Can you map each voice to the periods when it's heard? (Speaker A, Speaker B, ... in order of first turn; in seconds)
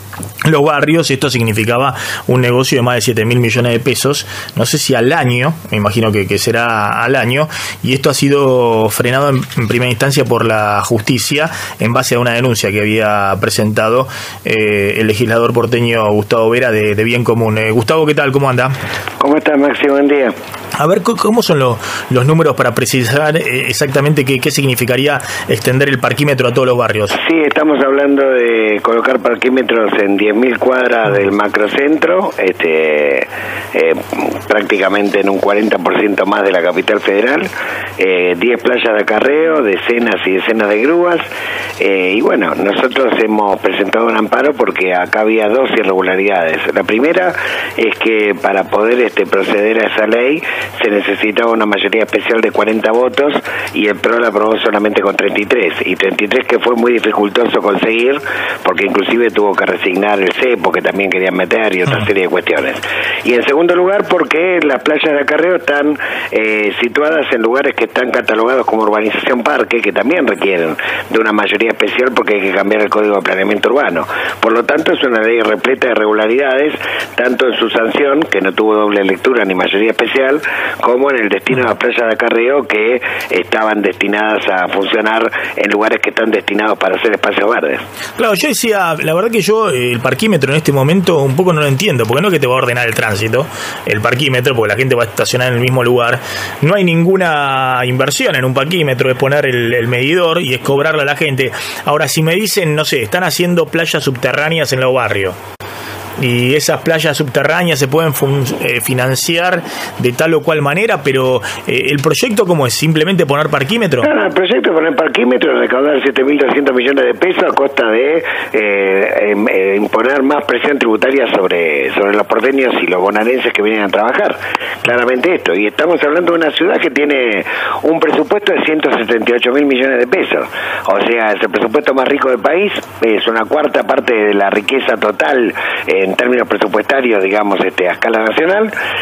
Speaker A: 0.4-18.7, 20.8-27.2, 88.2-105.3, 106.2-114.1
Speaker B: 19.2-20.3, 27.1-41.3, 41.8-87.8, 114.0-138.7